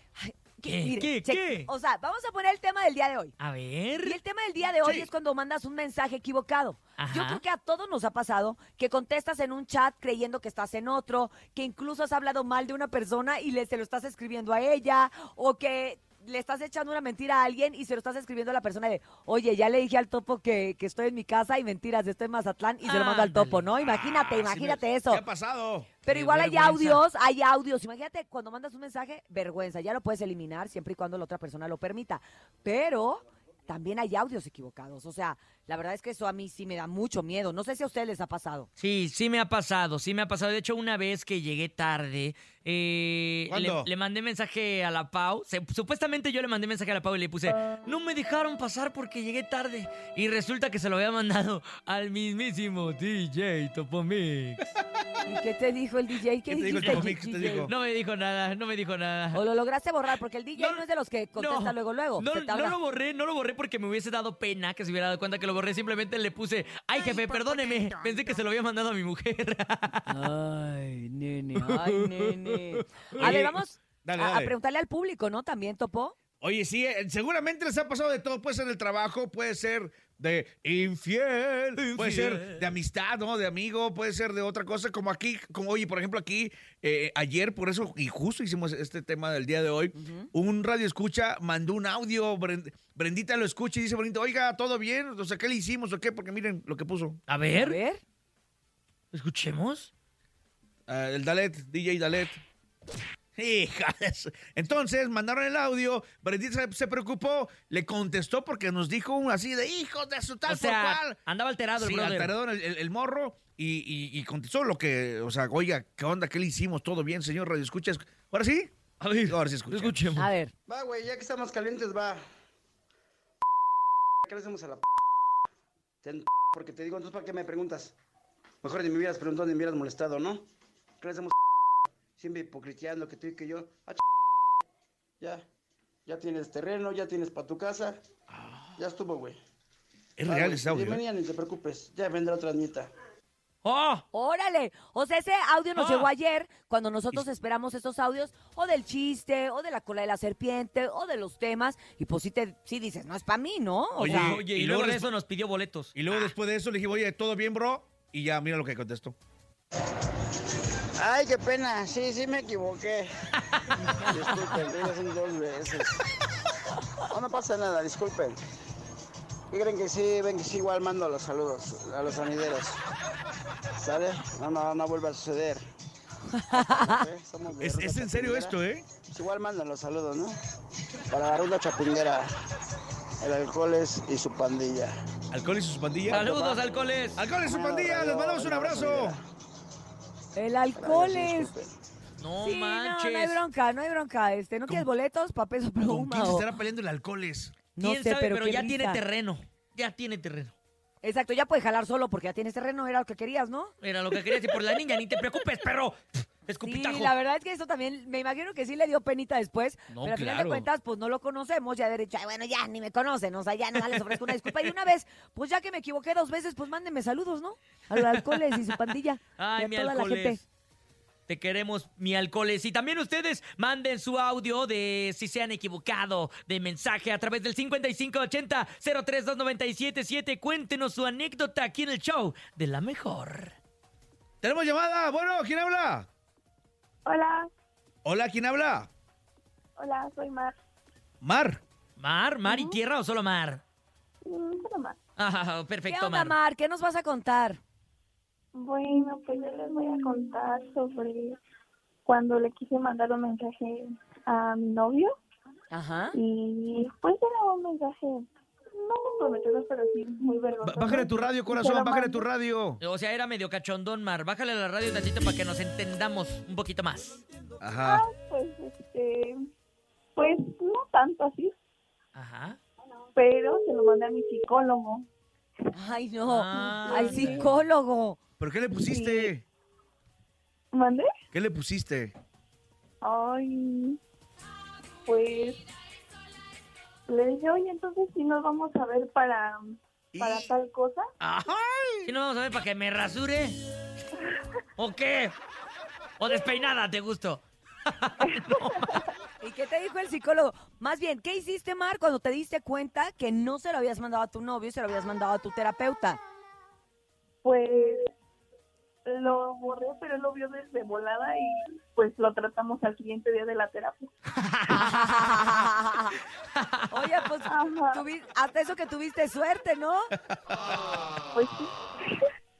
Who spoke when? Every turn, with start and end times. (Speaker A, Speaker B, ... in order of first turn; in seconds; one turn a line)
Speaker A: 0.2-3.3
Speaker B: 0.7-1.7
Speaker B: 3.4-4.2
Speaker A: 4.0-25.2
Speaker C: 4.8-5.1
Speaker B: 7.0-7.4
Speaker B: 22.8-23.7
Speaker C: 23.8-25.9
Speaker A: 26.0-38.7
Speaker B: 26.1-27.0
Speaker B: 38.8-54.6
Speaker C: 43.5-43.9
Speaker A: 55.2-57.7
Speaker C: 56.5-57.7
Speaker B: 56.8-59.4
Speaker A: 59.3-62.8
Speaker B: 60.5-70.1
Speaker A: 67.0-68.3
Speaker A: 70.1-76.2
Speaker B: 71.6-72.6
Speaker C: 73.2-74.5
Speaker C: 76.4-97.2
Speaker B: 81.8-82.7
Speaker A: 89.9-90.3
Speaker B: 97.3-97.8
Speaker A: 97.5-98.0
Speaker B: 99.1-99.9
Speaker C: 100.9-102.4
Speaker C: 103.3-111.2
Speaker B: 110.5-112.3
Speaker C: 111.8-118.7
Speaker B: 119.0-120.3
Speaker C: 119.2-120.1
Speaker A: 120.2-120.5
Speaker D: 120.7-122.2
Speaker D: 124.2-124.8
Speaker D: 126.0-127.9
Speaker D: 128.6-130.4
Speaker D: 131.0-131.3
Speaker D: 132.2-134.0
Speaker D: 136.1-138.0
Speaker C: 138.3-138.7
Speaker D: 138.8-139.4
Speaker C: 140.2-141.0
Speaker D: 140.2-142.9
Speaker B: 143.6-144.0
Speaker A: 144.1-154.4
Speaker B: 145.8-146.1
Speaker C: 154.0-155.1
Speaker B: 154.0-156.3
Speaker C: 155.9-159.2
Speaker D: 161.0-163.1
Speaker B: 163.5-164.1
Speaker D: 164.1-166.0
Speaker D: 167.1-168.4
Speaker D: 169.5-172.8
Speaker D: 173.8-175.6
Speaker A: 176.3-177.0
Speaker D: 176.5-180.4
Speaker C: 177.6-178.9
Speaker D: 181.1-182.3
Speaker D: 183.2-184.9
Speaker C: 185.3-186.3
Speaker B: 186.1-187.2
Speaker D: 186.3-186.6
Speaker C: 187.2-189.2
Speaker D: 187.4-189.2
Speaker A: 190.3-191.5
Speaker D: 190.8-191.7
Speaker B: 192.2-193.4
Speaker A: 192.4-196.5
Speaker C: 195.8-197.6
Speaker A: 197.7-199.0
Speaker B: 197.8-200.5
Speaker A: 201.0-203.7
Speaker B: 203.8-207.1
Speaker A: 206.6-220.4
Speaker B: 209.9-210.7
Speaker B: 219.4-220.4
Speaker B: 221.3-233.5
Speaker C: 234.4-236.1
Speaker E: 237.1-237.5
Speaker C: 238.0-238.9
Speaker E: 239.8-240.5
Speaker C: 241.2-241.6
Speaker B: 242.0-243.6
Speaker E: 242.4-242.8
Speaker E: 244.2-245.0
Speaker B: 245.2-246.3
Speaker A: 245.9-247.6
Speaker E: 248.5-251.4
Speaker E: 252.1-255.1
Speaker A: 255.7-256.2
Speaker E: 256.1-262.3
Speaker C: 260.6-262.8
Speaker B: 262.8-267.2
Speaker C: 267.6-268.0
Speaker E: 267.8-269.4
Speaker E: 270.1-271.5
Speaker B: 272.1-272.6
Speaker E: 273.1-275.1
Speaker A: 275.7-278.2
Speaker B: 276.3-277.5
Speaker E: 276.8-277.3
Speaker C: 278.4-279.4
Speaker E: 280.7-281.1
Speaker C: 281.3-282.1
Speaker E: 283.0-284.0
Speaker E: 285.1-285.6
Speaker E: 287.1-291.1
Speaker C: 290.1-290.5
Speaker C: 291.4-292.1
Speaker B: 292.0-293.6
Speaker B: 294.8-295.4
Speaker B: 296.2-298.9
Speaker A: 299.4-306.2
Speaker E: 307.4-308.1
Speaker E: 309.1-314.1
Speaker B: 314.4-315.5
Speaker A: 314.7-316.1
Speaker B: 316.6-316.8
Speaker A: 316.9-320.1
Speaker E: 317.5-318.0
Speaker E: 321.3-322.2